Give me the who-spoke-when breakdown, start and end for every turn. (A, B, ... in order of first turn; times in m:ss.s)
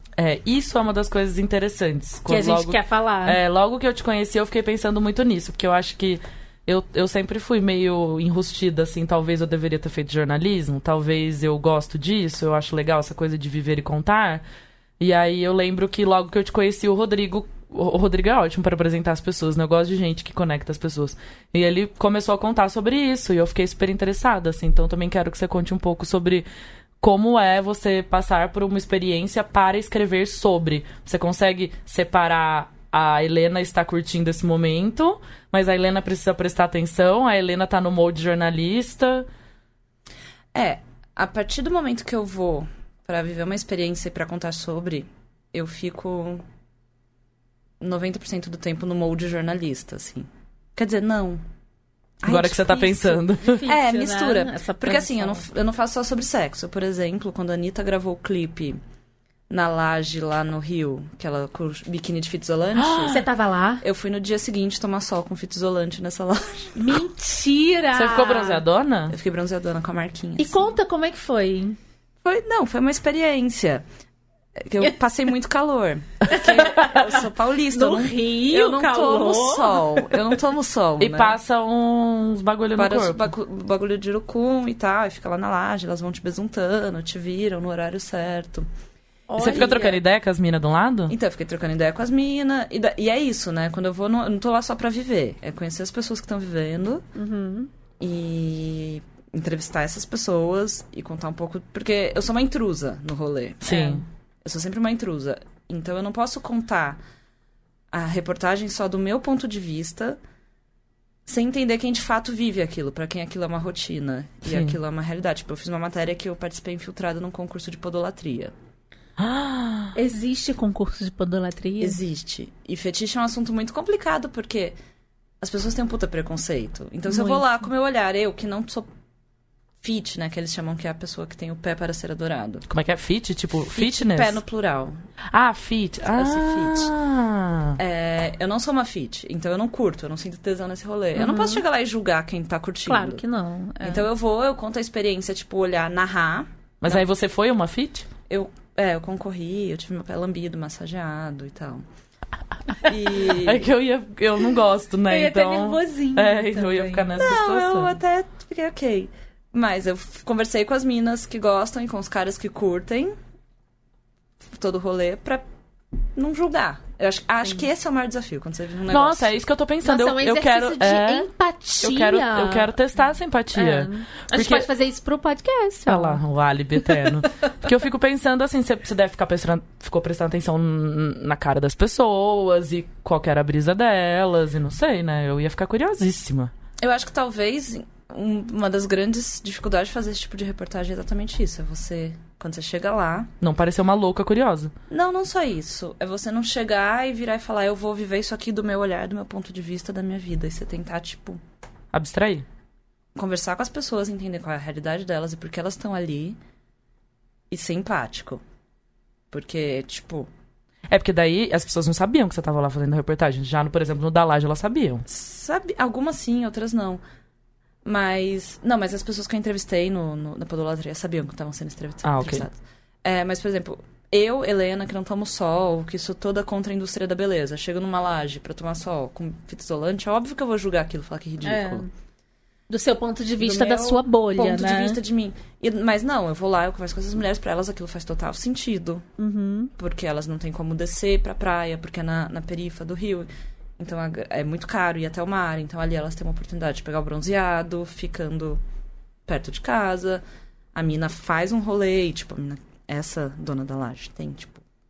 0:00.2-0:14.4 A
0:02.3-0:03.4 B
0:15.0-0:26.4 A
0:27.0-0:39.3 A
0:40.5-0:46.4 C
0:47.8-0:51.4 C
0:52.2-0:58.8 C
0:52.2-0:53.6 A
0:53.4-0:55.4 B
0:59.5-1:03.3 C
1:02.8-1:03.2 A
1:03.1-1:03.8 B
1:03.8-1:07.0 C
1:06.8-1:08.6 B
1:07.9-1:09.2 A
1:09.1-1:10.7 C
1:10.4-1:11.8 B
1:12.2-1:13.8 C
1:14.6-1:21.4 C
1:16.3-1:16.9 B
1:17.7-1:20.0 B
1:21.0-1:23.3 A
1:22.8-1:28.7 C
1:29.3-1:30.0 B
1:29.4-1:31.1 A
1:31.1-1:37.0 C
1:37.1-1:37.7 B
1:38.0-1:47.0 C
1:43.6-1:44.0 A
1:47.9-1:50.2 C
1:51.2-1:58.5 C
1:54.4-1:54.8 A
1:59.2-1:59.9 A
1:59.9-2:02.0 B
2:01.8-2:04.8 C
2:05.4-2:08.9 C
2:07.1-2:07.5 B
2:09.8-2:12.6 C
2:12.7-2:14.4 A
2:13.7-2:15.0 C
2:15.3-2:17.8 A
2:16.1-2:16.9 C
2:17.8-2:23.2 C
2:21.1-2:21.6 B
2:22.8-2:24.1 B
2:23.8-2:27.0 C
2:26.8-2:28.1 A
2:28.3-2:31.8 C
2:32.8-2:33.7 C
2:33.3-2:38.0 A
2:35.1-2:37.4 B
2:37.2-2:43.2 C
2:44.5-2:45.4 C
2:46.1-2:49.3 C
2:48.9-2:51.3 A
2:49.8-2:52.8 B
2:51.8-2:54.7 A
2:53.5-2:56.2 B
2:55.9-3:06.5 A
3:06.8-3:13.3 C
3:13.4-3:14.7 A
3:14.9-3:21.4 C
3:21.9-3:22.4 A
3:23.2-3:26.4 C
3:27.5-3:28.4 C
3:29.3-3:30.3 C
3:30.9-3:35.0 A
3:35.1-3:37.0 C
3:37.8-3:51.8 C
3:42.0-3:42.4 A
3:51.4-3:51.9 B
3:52.7-3:55.0 B
3:53.4-3:59.0 C
3:59.2-3:59.7 B
3:59.8-4:08.6 C
4:09.3-4:10.2 C
4:10.7-4:14.6 C